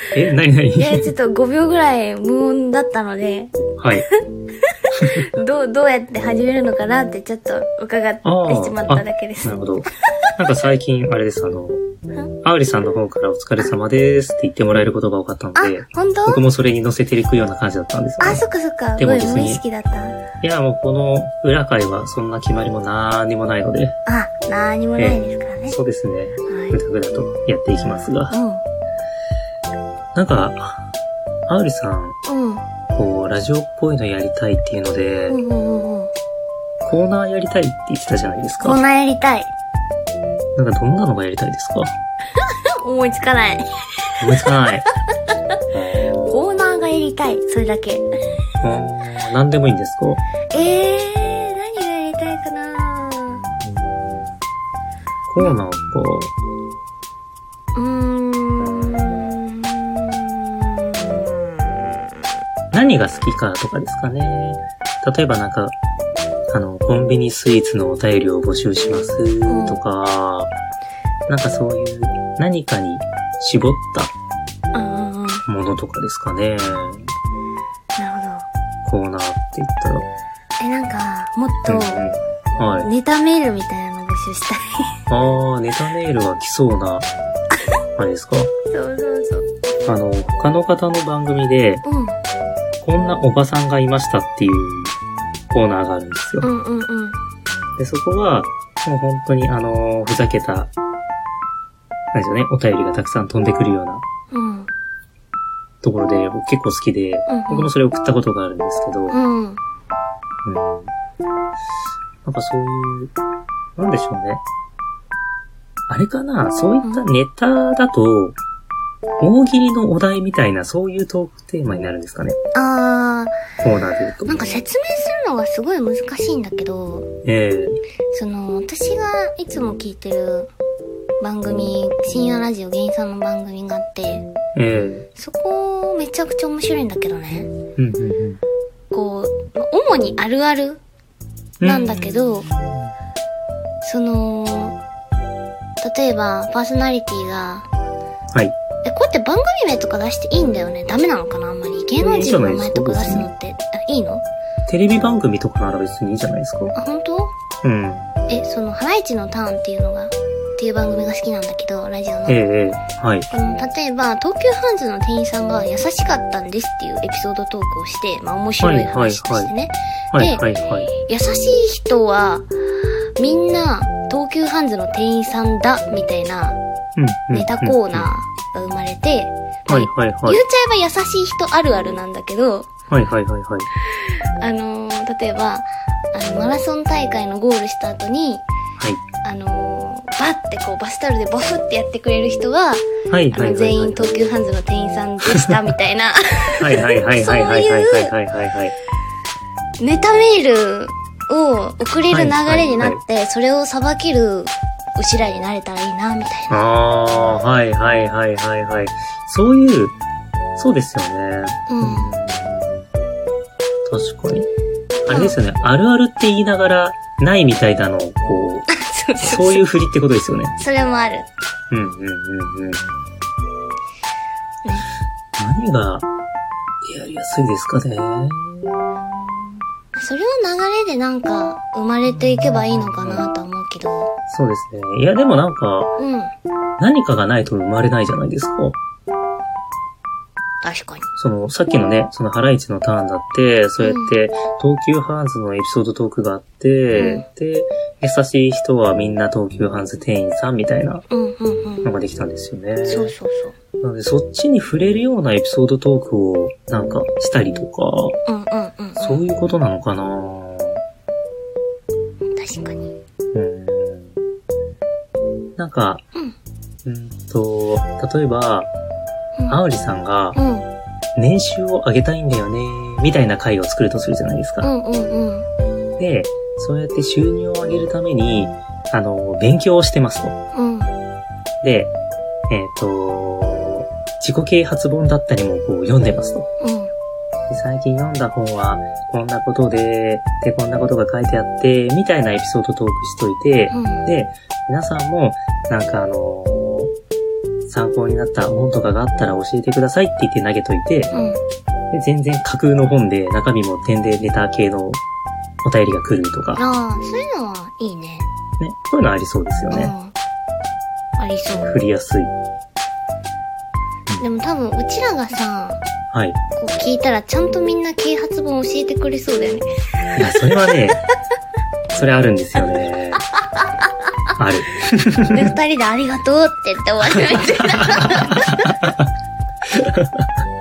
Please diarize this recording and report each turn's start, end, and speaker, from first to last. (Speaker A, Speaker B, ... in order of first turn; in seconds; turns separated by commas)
Speaker A: 0.1-1.1, Speaker B: 0.8-9.7, Speaker A: 3.8-4.1, Speaker A: 5.0-5.3, Speaker A: 8.2-11.8, Speaker A: 12.4-18.4, Speaker B: 15.6-16.4, Speaker B: 18.2-20.2, Speaker A: 19.0-19.6, Speaker A: 20.4-24.0, Speaker B: 24.1-25.8, Speaker A: 25.0-28.4, Speaker B: 26.5-26.8, Speaker B: 28.3-28.6, Speaker A: 30.1-30.9, Speaker A: 31.5-32.2, Speaker B: 32.2-32.6, Speaker A: 32.9-35.4, Speaker B: 35.3-36.1, Speaker A: 36.8-38.8, Speaker B: 38.6-39.5, Speaker A: 40.5-41.9, Speaker B: 42.8-43.7, Speaker A: 44.2-44.9, Speaker A: 45.7-46.4, Speaker B: 46.3-48.0, Speaker A: 48.6-50.2, Speaker B: 50.5-53.4, Speaker A: 53.6-54.3, Speaker A: 55.3-56.3, Speaker B: 57.7-61.8, Speaker A: 62.7-65.8, Speaker A: 66.5-70.5, Speaker B: 69.5-69.8, Speaker A: 71.3-74.1, Speaker B: 74.7-75.4, Speaker A: 75.5-77.1, Speaker B: 78.0-78.5, Speaker A: 78.8-80.1, Speaker B: 80.6-82.0, Speaker A: 81.7-82.9, Speaker B: 82.8-84.8, Speaker A: 85.1-87.1, Speaker A: 88.0-88.5, Speaker B: 88.7-89.5, Speaker A: 89.8-91.8, Speaker B: 91.8-92.2, Speaker A: 92.8-95.0, Speaker A: 95.5-96.5, Speaker B: 96.4-97.2, Speaker A: 97.8-100.7, Speaker A: 102.1-104.0, Speaker B: 104.3-104.7, Speaker A: 105.8-109.2, Speaker B: 107.3-107.7, Speaker B: 109.1-109.6, Speaker A: 110.4-110.9, Speaker A: 112.2-113.1, Speaker A: 113.8-114.4, Speaker A: 115.9-118.4, Speaker A: 119.2-122.4, Speaker B: 122.5-123.3, Speaker A: 123.6-124.3, Speaker B: 124.2-127.1, Speaker A: 127.2-127.8, Speaker B: 128.1-130.5, Speaker B: 131.2-134.3, Speaker A: 134.6-135.1, Speaker B: 135.1-137.5, Speaker A: 137.8-138.4, Speaker B: 138.9-140.8, Speaker A: 141.6-142.9, Speaker B: 141.6-142.5, Speaker B: 143.8-144.8, Speaker B: 145.8-147.7, Speaker B: 148.8-154.2, Speaker A: 152.0-153.3, Speaker A: 154.7-156.7, Speaker B: 156.7-157.3, Speaker A: 157.6-158.1, Speaker B: 158.3-162.4, Speaker A: 162.3-163.3, Speaker B: 163.3-170.4, Speaker A: 168.6-169.5, Speaker A: 170.1-170.9, Speaker B: 171.0-172.5, Speaker B: 173.2-176.6, Speaker A: 176.9-178.1, Speaker B: 177.3-182.7, Speaker A: 179.7-180.4, Speaker A: 182.9-183.7, Speaker B: 184.4-188.4, Speaker B: 189.2-198.1, Speaker A: 193.1-194.1, Speaker A: 196.6-198.7, Speaker B: 199.8-206.7, Speaker A: 202.1-203.0, Speaker A: 206.5-210.0, Speaker A: 210.6-212.8, Speaker B: 211.7-212.1, Speaker A: 213.8-214.5, Speaker A: 215.0-218.7, Speaker B: 215.1-215.4, Speaker B: 218.7-219.6, Speaker A: 219.2-220.6, Speaker B: 220.6-221.3, Speaker A: 221.7-222.8, Speaker A: 225.4-226.1, Speaker A: 226.8-228.8, Speaker B: 229.9-234.1, Speaker A: 232.1-233.3, Speaker A: 234.3-235.9, Speaker B: 236.0-236.3, Speaker A: 236.8-238.8, Speaker B: 240.6-241.1, Speaker A: 241.2-251.0, Speaker B: 243.8-244.1, Speaker B: 246.9-247.2, Speaker B: 251.1-251.9, Speaker A: 251.8-253.1, Speaker B: 252.8-253.5, Speaker A: 253.8-258.2, Speaker B: 258.3-259.2, Speaker A: 259.0-260.8, Speaker B: 262.4-262.9, Speaker A: 263.3-264.2, Speaker A: 265.6-266.0, Speaker A: 266.8-268.7, Speaker A: 269.5-270.4, Speaker B: 270.3-270.7, Speaker A: 271.1-274.7, Speaker B: 274.6-275.4, Speaker A: 276.0-280.4, Speaker B: 280.5-280.9, Speaker A: 281.6-281.9, Speaker A: 282.5-286.5, Speaker B: 286.6-286.9, Speaker A: 287.5-296.9, Speaker B: 293.7-294.0, Speaker A: 297.7-301.1, Speaker B: 301.1-301.4, Speaker A: 301.9-305.0, Speaker A: 305.6-306.6, Speaker B: 306.6-308.3, Speaker A: 308.6-309.9, Speaker B: 309.7-310.1, Speaker B: 311.2-311.7, Speaker A: 311.6-312.3, Speaker B: 314.2-315.8, Speaker A: 316.1-316.4, Speaker B: 316.6-319.6, Speaker A: 320.1-321.0, Speaker A: 321.9-323.2, Speaker A: 324.4-325.5, Speaker B: 325.3-328.7, Speaker A: 327.3-329.1, Speaker A: 329.7-330.3